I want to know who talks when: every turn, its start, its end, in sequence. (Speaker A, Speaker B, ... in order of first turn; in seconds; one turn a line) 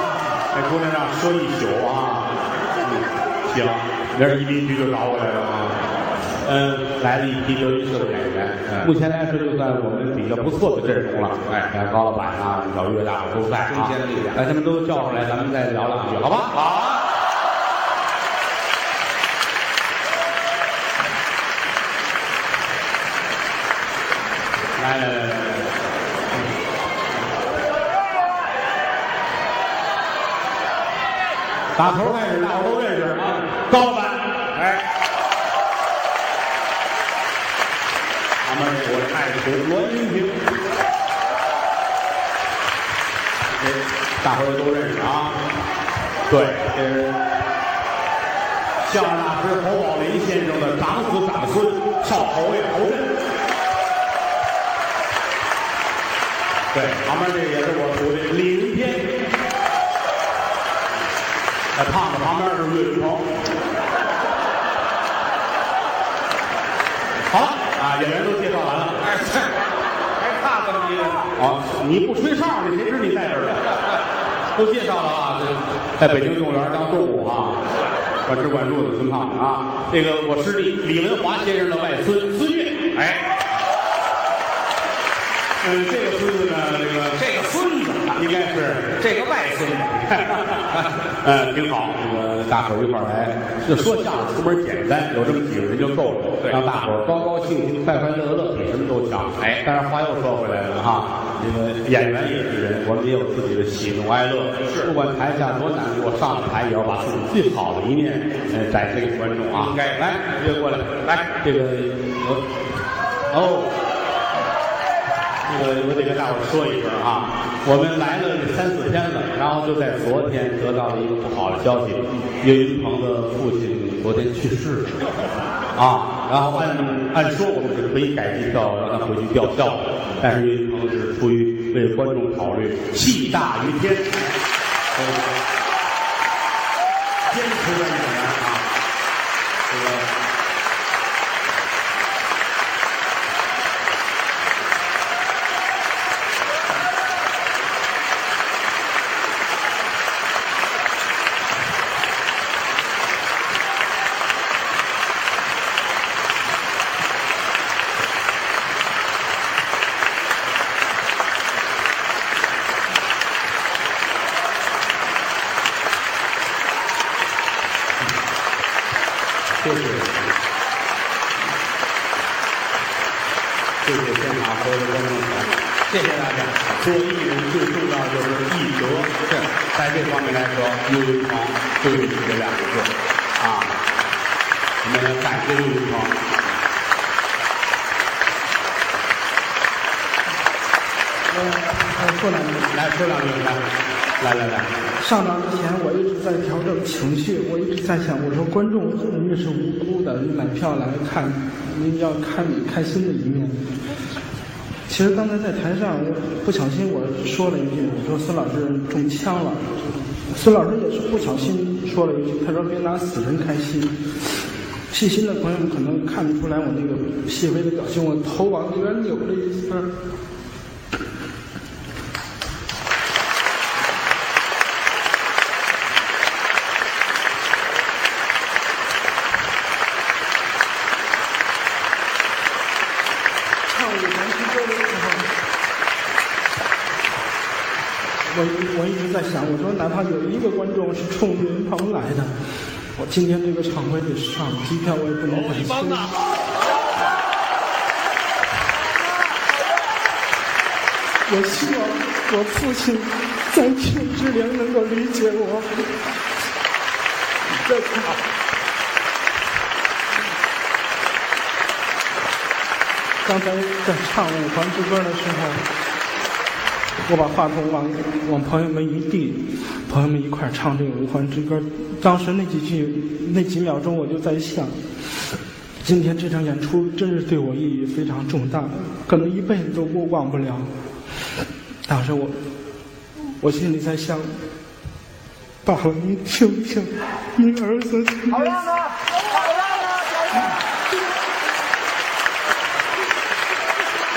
Speaker A: 0.5-5.8
Speaker A: 6.4-16.6
Speaker B: 13.7-14.4
Speaker B: 16.5-17.0
Speaker A: 24.8-25.7
Speaker A: 31.7-34.3
Speaker A: 38.4-40.4
Speaker A: 43.6-45.4
Speaker A: 46.3-47.2
Speaker A: 48.8-53.1
Speaker A: 56.7-59.1
Speaker A: 61.7-63.3
Speaker A: 67.3-69.0
Speaker B: 69.0-69.5
Speaker B: 70.2-71.2
Speaker A: 71.3-73.6
Speaker A: 74.5-77.6
Speaker A: 78.2-82.9
Speaker B: 82.9-83.2
Speaker A: 85.6-87.2
Speaker B: 87.1-88.1
Speaker A: 88.1-89.0
Speaker B: 89.0-90.2
Speaker A: 90.1-112.4
Speaker A: 113.3-113.7
Speaker A: 115.5-124.9
Speaker A: 125.7-134.1
Speaker A: 134.9-135.2
Speaker A: 137.3-138.6
Speaker A: 139.7-140.1
Speaker A: 169.6-170.3
Speaker A: 173.8-179.1
Speaker A: 179.7-183.8
Speaker A: 184.8-186.2
Speaker C: 191.3-192.7
Speaker A: 192.7-193.6
Speaker A: 194.2-194.7
Speaker C: 195.0-203.6
Speaker C: 204.9-214.0
Speaker C: 214.9-219.9
Speaker C: 233.7-235.3
Speaker C: 238.3-242.3
Speaker C: 242.9-246.2
Speaker C: 251.3-255.7
Speaker C: 257.5-258.2
Speaker C: 263.2-265.6
Speaker C: 267.1-274.8
Speaker C: 275.8-280.7
Speaker C: 281.9-282.4
Speaker C: 283.4-284.3
Speaker C: 285.6-288.8